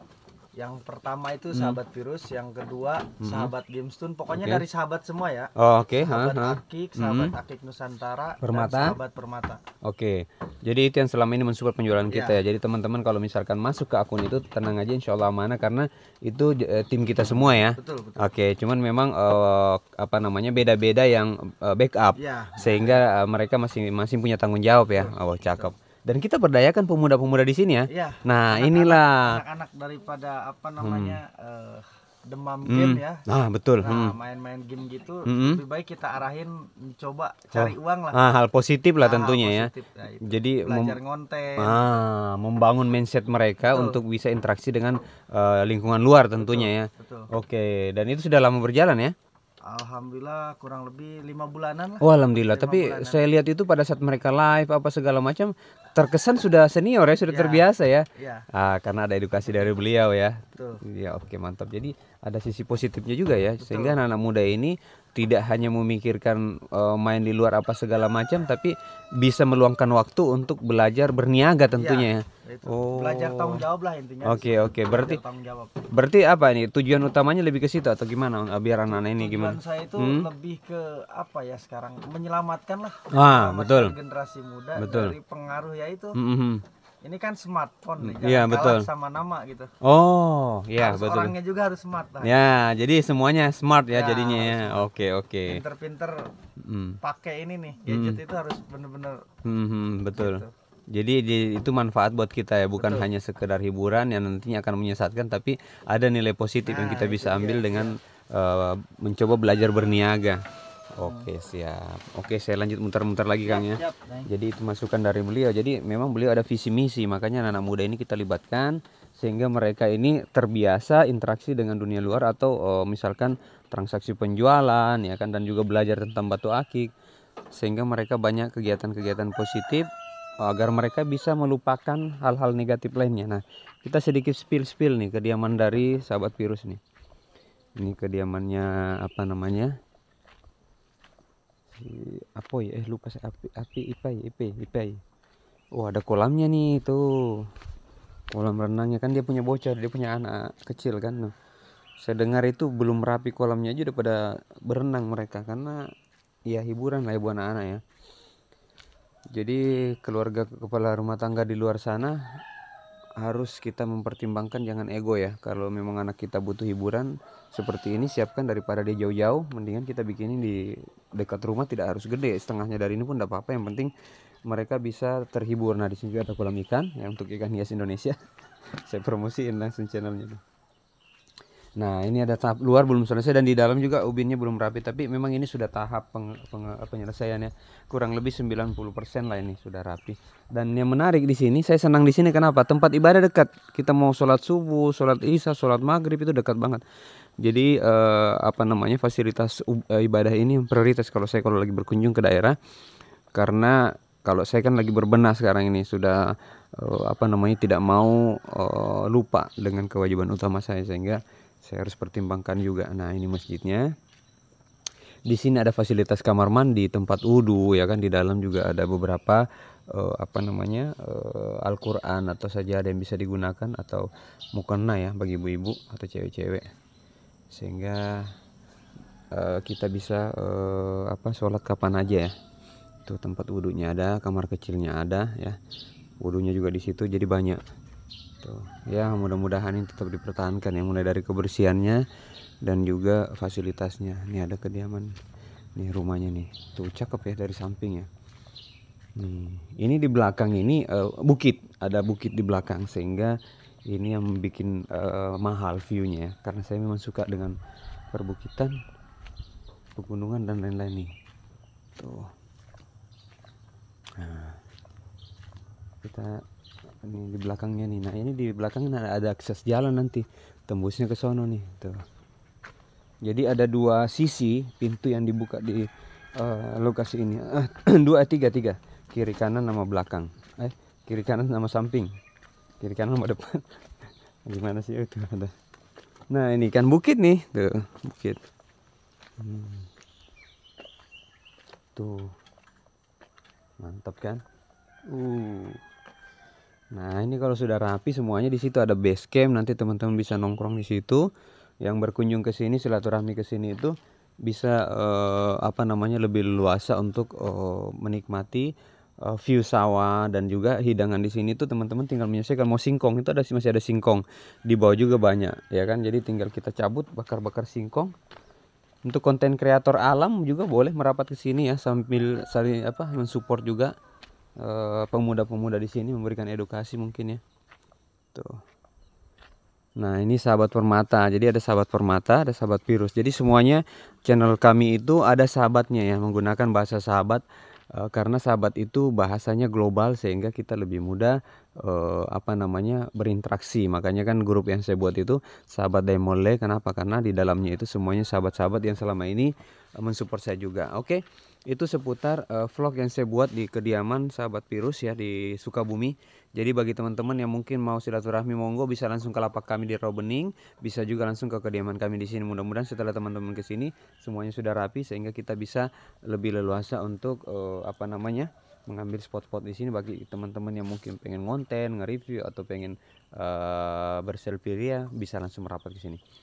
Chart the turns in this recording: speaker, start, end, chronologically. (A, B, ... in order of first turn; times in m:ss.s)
0:00.6-0:09.6 A
0:03.2-0:03.5 B
0:04.3-0:04.6 B
0:05.6-0:07.3 B
0:08.4-0:09.0 B
0:09.8-0:29.4 B
0:12.1-0:12.4 A
0:17.3-0:18.3 A
0:22.2-0:23.0 A
0:25.0-0:25.7 A
0:27.9-0:33.2 A
0:30.8-0:31.2 B
0:32.7-0:34.1 B
0:33.8-0:38.2 A
0:35.2-0:35.6 B
0:37.5-0:39.7 B
0:39.0-0:41.8 A
0:40.2-0:41.0 B
0:41.6-0:49.1 B
0:43.7-0:44.0 A
0:46.4-0:47.3 A
0:49.7-0:53.2 A
0:52.0-1:13.6 B
0:57.3-0:58.4 A
1:00.5-1:00.8 A
1:03.6-1:04.0 A
1:11.8-1:15.8 A
1:14.2-1:15.2 B
1:15.9-1:20.3 B
1:18.9-1:26.2 A
1:23.1-1:23.9 B
1:24.8-1:25.1 B
1:26.1-1:26.6 B
1:27.0-1:29.7 A
1:28.0-1:28.9 B
1:29.8-1:31.3 B
1:30.8-1:32.4 A
1:32.2-1:35.6 B
1:33.9-1:34.9 A
1:35.4-1:36.3 A
1:36.6-1:37.0 B
1:37.0-1:39.2 A
1:37.9-1:38.2 B
1:39.4-1:50.4 B
1:40.1-1:40.5 A
1:42.8-1:43.1 A
1:46.6-1:47.9 A
1:50.9-2:06.9 B
1:51.0-1:51.3 A
1:53.4-1:54.3 A
2:07.5-2:09.9 B
2:10.4-2:16.8 B
2:17.8-2:19.7 B
2:21.7-2:25.0 B
2:25.8-2:27.5 B
2:28.3-2:31.3 B
2:32.0-2:35.9 B
2:36.5-2:37.8 B
2:39.3-2:42.2 B
2:43.2-2:53.9 B
2:54.4-2:58.2 B
2:58.8-3:00.4 B
3:01.8-3:16.8 B
3:17.4-3:22.6 B
3:23.3-3:33.9 B
3:35.3-3:46.7 B
3:47.5-3:48.3 B
3:49.3-3:52.3 B
3:53.1-3:55.6 B
3:56.2-3:57.6 B
3:58.4-4:02.0 B
4:02.6-4:05.1 B
4:05.8-4:08.1 B
4:09.2-4:13.4 B
4:13.9-4:17.6 B
4:18.1-4:18.7 B
4:20.0-4:21.1 B
4:22.0-4:22.3 B
4:24.2-4:24.6 B
4:26.0-4:26.4 B
4:27.0-4:32.0 B
4:33.2-4:42.1 B
4:42.8-4:43.6 B
4:44.4-4:45.5 B
4:46.3-4:48.4 B
4:49.4-4:49.9 B
4:52.0-4:52.3 B
4:53.8-4:54.4 B
4:55.1-4:55.8 B
4:56.9-5:01.3 B
5:01.8-5:03.9 B
5:04.4-5:08.7 B
5:09.2-5:18.1 B
5:19.0-5:23.9 B
5:24.6-5:27.4 B
5:30.0-5:37.4 B
5:38.0-6:16.2 B